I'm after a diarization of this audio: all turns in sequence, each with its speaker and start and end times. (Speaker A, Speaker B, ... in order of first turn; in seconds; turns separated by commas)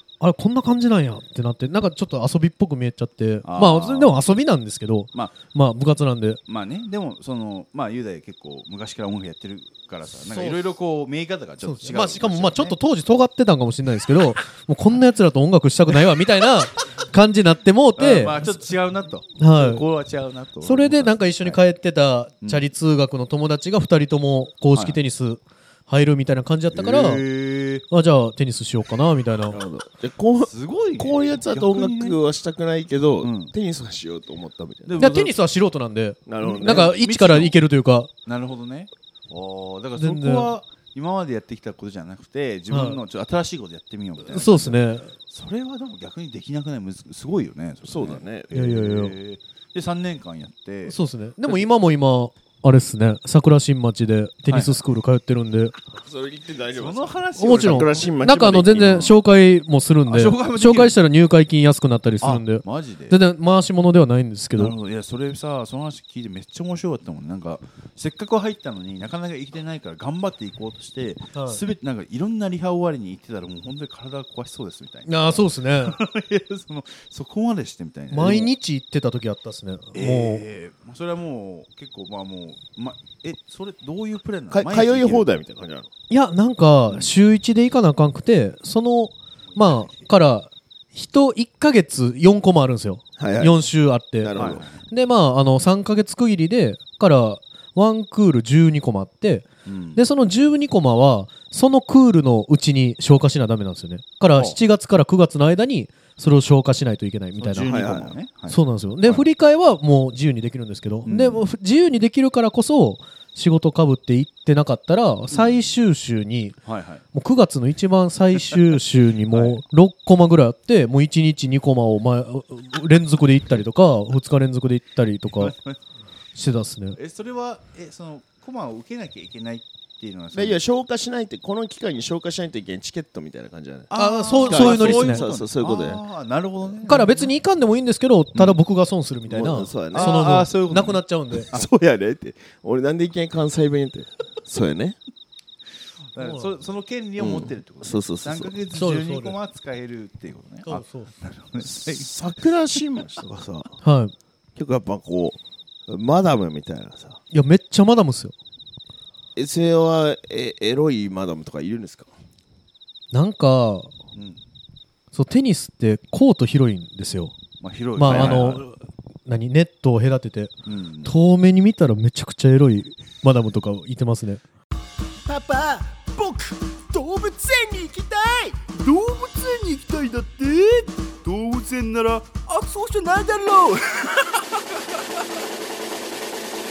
Speaker A: 0.2-6.4, Speaker B: 3.5-4.2, Speaker B: 6.5-12.8, Speaker A: 10.2-10.6, Speaker A: 11.6-18.6, Speaker B: 18.0-21.6, Speaker A: 19.4-19.8, Speaker A: 20.6-27.2, Speaker B: 26.7-27.9, Speaker A: 27.9-29.6, Speaker C: 29.5-35.0, Speaker B: 30.4-32.2, Speaker B: 33.2-33.5, Speaker B: 34.9-35.4, Speaker A: 35.0-38.1, Speaker C: 36.3-36.9, Speaker B: 36.4-37.6, Speaker B: 38.3-51.7, Speaker A: 40.0-40.5, Speaker A: 42.7-43.0, Speaker A: 44.3-45.1, Speaker C: 47.8-48.6, Speaker A: 48.5-49.1, Speaker A: 50.9-55.8, Speaker B: 54.5-54.8, Speaker C: 56.0-59.1, Speaker B: 56.7-58.1, Speaker A: 57.4-64.7, Speaker B: 58.8-59.1, Speaker B: 60.1-61.0, Speaker B: 62.2-63.2, Speaker B: 64.6-78.5, Speaker A: 71.3-71.6, Speaker A: 75.1-76.0, Speaker A: 78.1-80.4, Speaker B: 79.9-85.2, Speaker C: 84.5-85.9, Speaker A: 86.1-107.8, Speaker B: 89.5-90.0, Speaker C: 93.2-93.6, Speaker C: 94.2-94.6, Speaker B: 94.3-94.8, Speaker B: 99.7-100.0, Speaker B: 107.4-109.2, Speaker C: 107.7-108.2, Speaker A: 108.5-116.6, Speaker B: 111.1-111.5, Speaker B: 115.3-115.6, Speaker B: 116.7-117.0, Speaker A: 117.1-125.5, Speaker B: 119.3-119.6, Speaker B: 125.4-125.8, Speaker A: 126.3-127.0, Speaker B: 127.0-130.6, Speaker C: 130.3-133.9, Speaker B: 133.9-137.3, Speaker A: 133.9-135.2, Speaker C: 134.4-136.0, Speaker A: 136.9-141.5, Speaker C: 139.3-140.2, Speaker B: 139.9-141.7, Speaker C: 141.5-145.0, Speaker B: 146.2-152.1, Speaker A: 146.2-146.5, Speaker C: 147.2-148.5, Speaker A: 148.7-149.4, Speaker A: 150.7-151.1, Speaker C: 151.6-153.7, Speaker A: 153.8-154.1, Speaker C: 154.6-157.2, Speaker A: 157.3-158.3, Speaker C: 159.4-162.1, Speaker A: 163.1-163.9, Speaker B: 164.2-164.4, Speaker A: 165.1-167.3, Speaker B: 167.6-168.7, Speaker A: 168.0-170.5, Speaker C: 168.1-168.5, Speaker B: 170.7-171.1, Speaker A: 171.1-174.4, Speaker D: 175.3-178.7, Speaker B: 178.7-184.4